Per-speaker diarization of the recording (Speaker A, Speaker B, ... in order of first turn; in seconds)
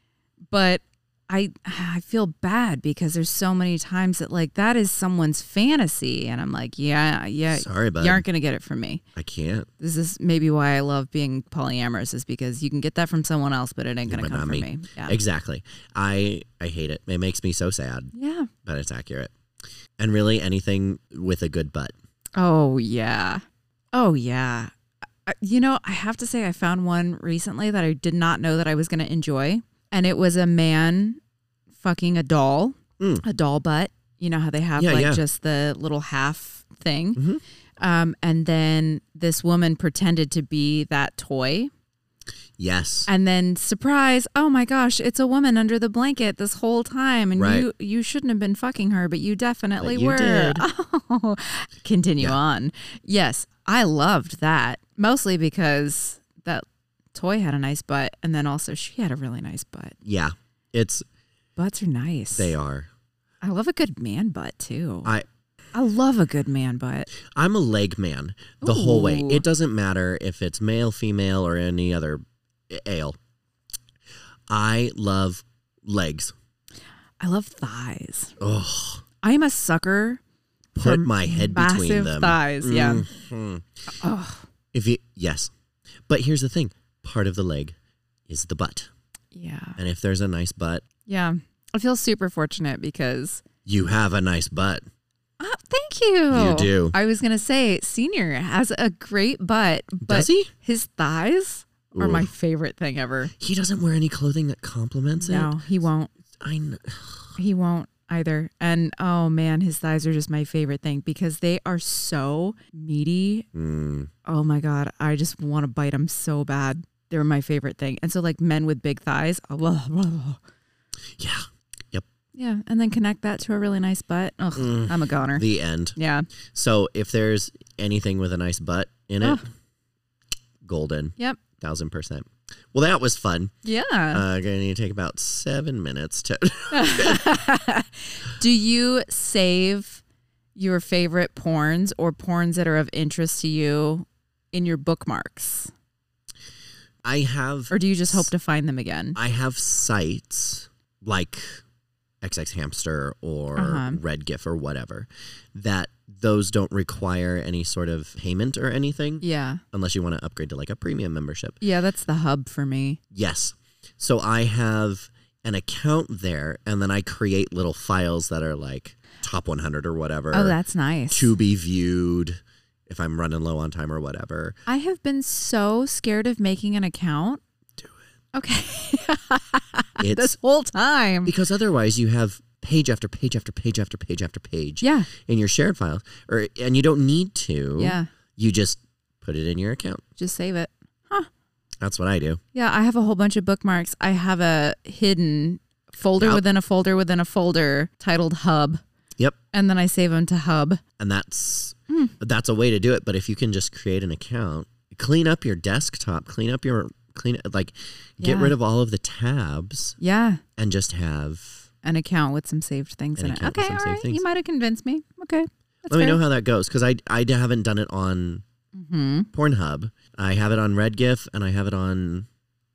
Speaker A: 0.5-9.0, 9.8-15.2, 18.1-18.5, 22.4-24.7, 25.3-31.2, 31.8-37.2, 37.8-41.7, 43.1-60.0, 61.6-62.5, 63.4-65.1, 65.7-67.1, 68.6-69.5, 77.2-78.4, 79.2-80.2, 80.8-83.1, 83.9-84.5, 89.3-89.8, 91.1-93.4, 95.4-103.3, 105.2-106.1, 107.4-113.5, 114.2-120.4, 122.3-126.3, 133.6-134.2, 136.7-140.0, 140.6-145.7, 147.7-149.2, 153.6-154.0, 159.2-159.6, 161.6-163.0, 170.3-171.3, 174.7-177.4, 178.3-181.3, 184.8-185.1, 187.8-188.1, 190.2-191.3, 192.5-198.8, 199.5-200.8, 208.2-208.5, 210.0-210.4, 211.8-216.2, 218.8-219.3
Speaker B: 7.5-8.2, 9.2-9.7, 14.1-18.1, 18.6-19.3, 20.0-21.9, 34.8-35.2, 37.2-37.4, 42.6-43.1, 47.4-47.7, 49.8-50.6, 60.0-61.1, 62.4-62.9, 67.1-73.2, 74.5-76.3, 78.4-79.0, 80.8-83.7, 84.7-85.5, 86.1-87.8, 88.3-88.9, 89.8-90.8, 93.7-94.8, 96.3-97.0, 100.0-100.5, 101.9-102.3, 103.4-105.6, 106.4-107.4, 113.5-114.1, 121.2-122.0, 124.6-126.0, 126.5-129.4, 130.6-133.5, 134.1-137.3, 147.0-148.3, 149.2-151.6, 152.2-161.6, 163.1-170.6, 171.1-174.6, 180.0-180.4, 181.2-190.0, 191.8-192.4, 196.2-196.4, 201.0-210.0, 210.6-211.7, 213.2-214.2, 215.9-218.4, 219.3-222.3